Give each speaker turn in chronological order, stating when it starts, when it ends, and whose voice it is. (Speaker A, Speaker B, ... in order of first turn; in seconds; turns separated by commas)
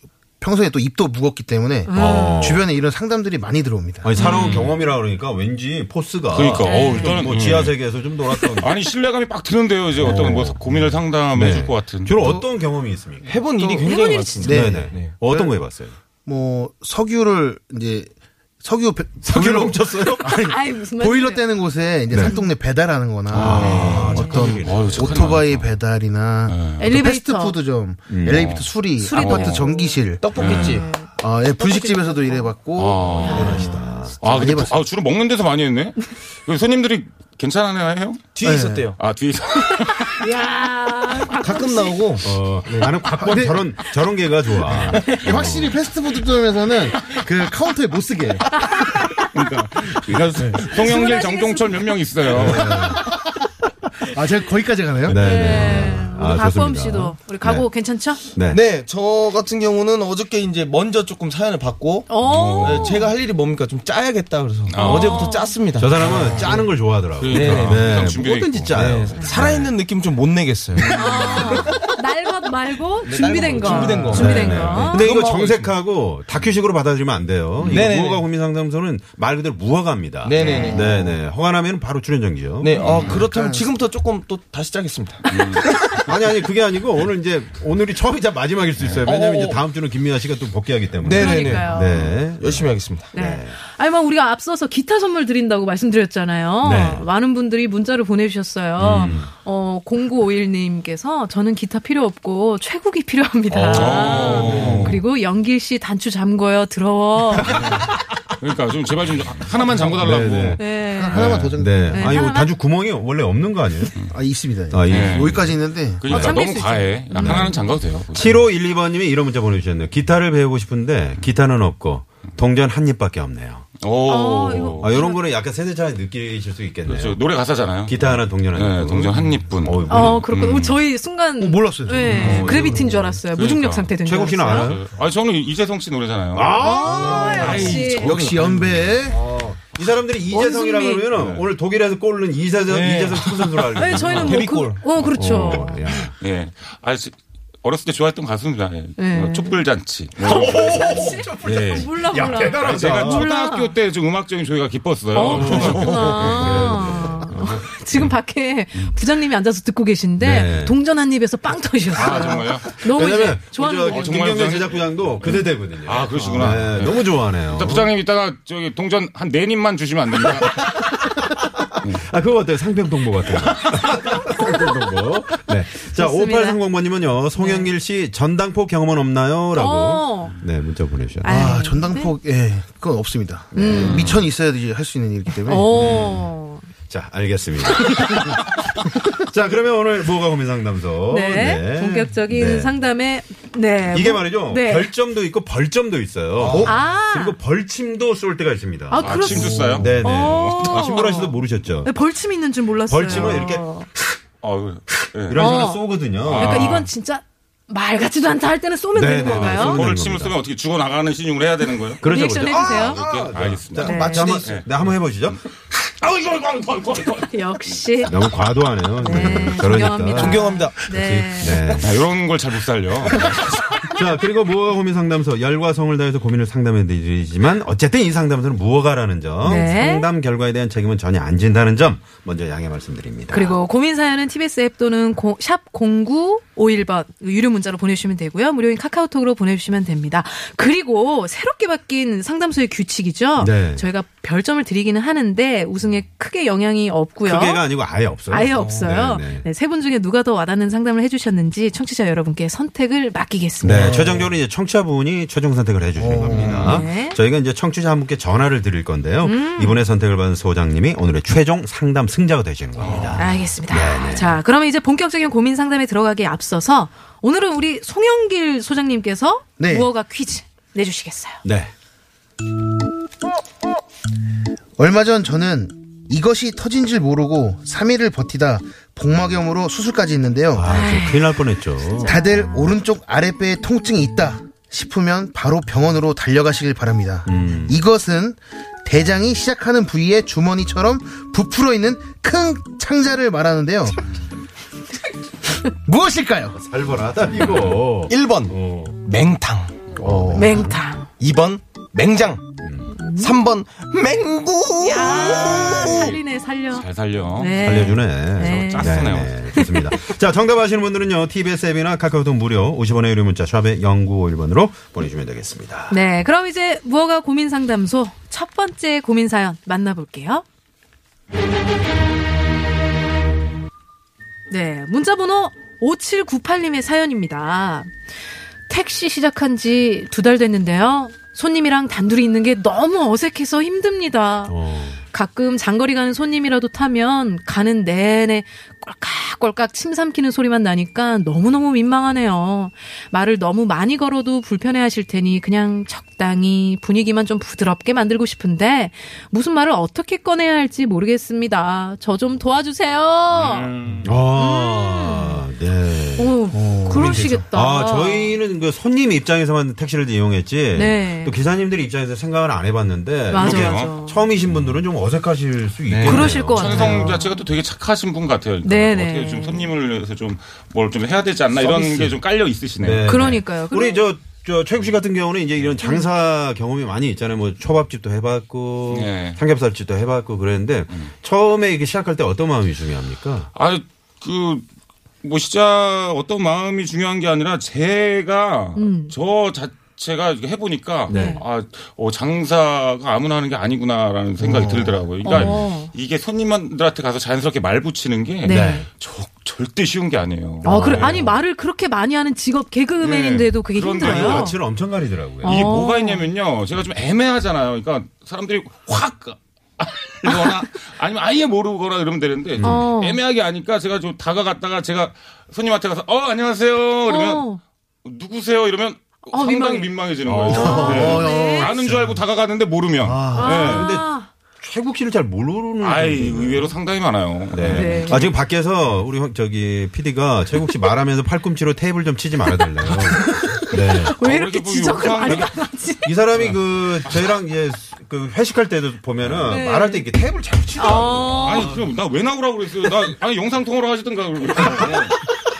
Speaker A: 0.4-4.1, Speaker B: 1.9-2.6, Speaker C: 1.9-2.6, Speaker C: 4.0-8.7, Speaker D: 4.2-4.7, Speaker B: 4.2-4.5, Speaker D: 6.3-7.8, Speaker B: 6.6-7.2, Speaker D: 8.6-12.2, Speaker C: 9.9-13.4, Speaker A: 12.2-12.5, Speaker E: 13.2-15.2, Speaker A: 13.5-13.9, Speaker B: 13.8-14.6, Speaker A: 14.4-15.6, Speaker C: 14.5-15.9, Speaker A: 16.2-18.1, Speaker A: 18.6-30.6, Speaker C: 19.2-20.4, Speaker B: 20.4-21.4, Speaker C: 23.3-25.4, Speaker D: 23.3-25.7, Speaker B: 23.6-24.4, Speaker D: 26.5-26.8, Speaker B: 26.8-27.6, Speaker C: 28.1-28.6, Speaker D: 28.2-29.6, Speaker B: 29.0-31.1, Speaker E: 30.2-31.0, Speaker D: 30.3-30.8, Speaker A: 31.1-34.7, Speaker B: 31.6-32.5, Speaker E: 31.7-31.9, Speaker D: 32.8-33.7, Speaker B: 33.2-33.6, Speaker C: 33.3-34.2, Speaker D: 34.2-38.4, Speaker E: 38.3-39.0, Speaker A: 38.4-38.9, Speaker D: 39.0-40.2, Speaker B: 39.6-42.1, Speaker E: 41.3-43.0, Speaker C: 42.2-45.8, Speaker A: 43.1-43.6, Speaker A: 44.7-48.5, Speaker B: 45.0-45.2, Speaker B: 48.5-49.3, Speaker D: 49.3-52.8, Speaker B: 50.6-51.6, Speaker A: 52.3-53.1, Speaker C: 52.3-53.0, Speaker A: 54.0-55.9, Speaker C: 55.1-57.7, Speaker B: 55.1-58.2, Speaker C: 58.3-58.6, Speaker E: 58.5-66.7, Speaker B: 62.1-63.1, Speaker D: 62.2-63.0, Speaker D: 64.7-65.4, Speaker B: 64.8-65.6, Speaker C: 65.7-69.7, Speaker D: 67.2-69.5, Speaker E: 67.3-67.9, Speaker E: 68.7-71.9, Speaker B: 70.9-75.1, Speaker E: 73.0-75.7, Speaker A: 73.6-74.1, Speaker C: 74.0-83.1, Speaker D: 77.6-77.9, Speaker E: 77.6-78.2, Speaker E: 80.2-81.1, Speaker B: 80.4-80.8, Speaker E: 82.6-86.1, Speaker D: 82.8-83.2, Speaker A: 82.9-83.7, Speaker D: 85.3-85.6, Speaker C: 86.1-93.6, Speaker E: 89.0-89.6, Speaker E: 91.0-93.1, Speaker B: 91.1-91.9, Speaker B: 93.1-107.6, Speaker C: 96.6-97.0, Speaker C: 98.8-99.3, Speaker C: 103.5-105.0, Speaker D: 103.7-105.0, Speaker A: 104.4-104.9, Speaker C: 107.3-107.9, Speaker D: 108.4-111.5, Speaker C: 109.7-110.6, Speaker B: 110.6-112.5, Speaker A: 110.9-112.3, Speaker C: 111.2-113.9, Speaker A: 114.1-116.3, Speaker C: 114.7-115.5, Speaker D: 114.9-118.4, Speaker B: 116.1-117.7, Speaker C: 117.2-117.6, Speaker C: 118.1-123.7, Speaker D: 123.8-124.9, Speaker B: 124.0-125.2, Speaker C: 124.7-127.2, Speaker D: 126.9-128.0, Speaker C: 127.8-130.2, Speaker D: 128.5-130.8, Speaker B: 129.9-134.7, Speaker A: 131.4-133.0, Speaker C: 132.1-133.0, Speaker D: 132.1-132.5, Speaker D: 133.3-133.9, Speaker C: 134.0-134.9, Speaker D: 134.4-136.5, Speaker C: 136.3-144.4, Speaker A: 136.3-139.2, Speaker B: 136.6-138.2, Speaker D: 137.5-137.9, Speaker E: 137.5-138.4, Speaker B: 140.3-141.1, Speaker D: 141.2-141.4, Speaker E: 142.7-144.8, Speaker B: 143.7-145.8, Speaker C: 145.1-146.1, Speaker D: 146.2-156.8, Speaker B: 149.0-149.6, Speaker C: 150.2-153.3, Speaker B: 150.6-153.7, Speaker B: 155.1-164.4, Speaker C: 155.2-158.1, Speaker C: 160.2-160.8, Speaker D: 161.9-162.7, Speaker C: 162.8-167.9, Speaker D: 163.8-170.6, Speaker C: 170.3-181.6, Speaker B: 175.8-176.6, Speaker B: 177.3-177.7, Speaker B: 179.5-180.3, Speaker B: 181.2-182.1, Speaker A: 181.2-185.7, Speaker C: 183.5-184.2, Speaker B: 183.6-184.0, Speaker B: 185.5-186.6, Speaker C: 185.7-186.2, Speaker C: 186.9-192.7, Speaker B: 191.1-194.9, Speaker C: 193.9-201.9, Speaker E: 196.4-196.7, Speaker B: 196.6-197.4, Speaker B: 198.9-203.9, Speaker D: 199.0-201.1, Speaker C: 202.9-203.6, Speaker D: 203.1-203.4, Speaker D: 204.4-205.5, Speaker C: 205.3-206.8, Speaker B: 205.3-209.8, Speaker D: 206.2-206.9, Speaker C: 208.9-210.3, Speaker D: 209.3-212.0, Speaker C: 212.0-215.4, Speaker B: 212.0-213.0, Speaker D: 212.8-214.8, Speaker B: 213.8-214.4, Speaker E: 214.0-214.4, Speaker D: 215.7-217.4, Speaker B: 217.3-218.2, Speaker C: 218.0-222.0, Speaker B: 219.0-221.7, Speaker E: 219.9-220.9, Speaker E: 221.4-221.8, Speaker D: 221.8-223.5, Speaker C: 223.1-233.5, Speaker B: 229.4-230.1, Speaker B: 233.3-247.6, Speaker C: 243.4-243.8, Speaker C: 247.2-249.5, Speaker B: 248.3-254.0, Speaker C: 253.6-264.4, Speaker A: 253.6-254.3, Speaker A: 256.0-256.8, Speaker D: 256.3-256.7, Speaker B: 256.6-257.2, Speaker B: 259.2-259.8, Speaker A: 262.8-263.2, Speaker B: 263.1-271.4, Speaker A: 269.6-269.9, Speaker C: 271.4-271.7, Speaker A: 274.8-280.7, Speaker C: 280.5-282.1, Speaker B: 280.6-281.4, Speaker B: 282.0-282.3, Speaker A: 282.0-294.0, Speaker C: 287.2-287.8, Speaker A: 295.8-296.6, Speaker C: 296.6-299.0, Speaker E: 298.1-299.7, Speaker A: 299.9-300.7, Speaker C: 300.0-300.8, Speaker B: 300.3-301.1, Speaker E: 301.2-302.4, Speaker C: 302.6-302.9, Speaker B: 303.0-303.3, Speaker E: 303.2-306.2, Speaker B: 304.8-306.8, Speaker D: 305.1-306.1, Speaker D: 306.7-309.3, Speaker B: 307.4-309.9, Speaker C: 307.6-316.0, Speaker B: 315.9-320.4, Speaker B: 324.5-327.9, Speaker B: 328.7-353.7, Speaker C: 334.5-335.0, Speaker D: 353.3-354.1, Speaker C: 354.0-367.1, Speaker B: 354.4-355.4, Speaker B: 356.2-358.4, Speaker A: 356.5-357.3, Speaker E: 357.0-357.3, Speaker B: 360.7-361.3, Speaker B: 363.3-364.2, Speaker D: 363.3-363.9, Speaker E: 365.9-366.3, Speaker B: 366.0-367.2, Speaker D: 366.5-373.1, Speaker A: 366.7-367.2, Speaker B: 368.6-369.7, Speaker C: 371.6-372.1, Speaker C: 372.8-383.5, Speaker B: 373.1-374.0, Speaker D: 378.9-379.4, Speaker D: 383.5-384.6, Speaker D: 385.2-401.2, Speaker B: 388.8-389.1, Speaker C: 391.1-391.4, Speaker B: 391.1-391.4, Speaker A: 394.4-395.0, Speaker B: 395.2-395.9, Speaker C: 395.3-395.6, Speaker B: 398.4-398.8, Speaker C: 398.4-398.9, Speaker B: 400.6-404.5, Speaker C: 400.6-401.4, Speaker A: 400.6-401.0, Speaker D: 403.0-404.5, Speaker C: 404.0-405.8, Speaker B: 405.4-406.2, Speaker D: 405.4-417.4, Speaker B: 410.2-410.5, Speaker C: 412.6-412.9, Speaker B: 412.6-413.2, Speaker B: 417.1-417.6, Speaker D: 418.0-423.9, Speaker B: 419.3-419.9, Speaker C: 420.2-421.2, Speaker A: 420.5-422.2, Speaker B: 420.7-421.7, Speaker A: 423.0-423.8, Speaker B: 423.4-424.3, Speaker C: 423.5-426.7, Speaker D: 425.8-428.3, Speaker C: 427.5-434.1, Speaker B: 427.6-428.3, Speaker B: 432.6-436.0, Speaker D: 434.2-435.6, Speaker C: 436.0-441.9, Speaker D: 436.4-437.3, Speaker D: 439.2-439.6, Speaker B: 439.5-440.0, Speaker B: 440.8-441.7, Speaker D: 441.3-445.2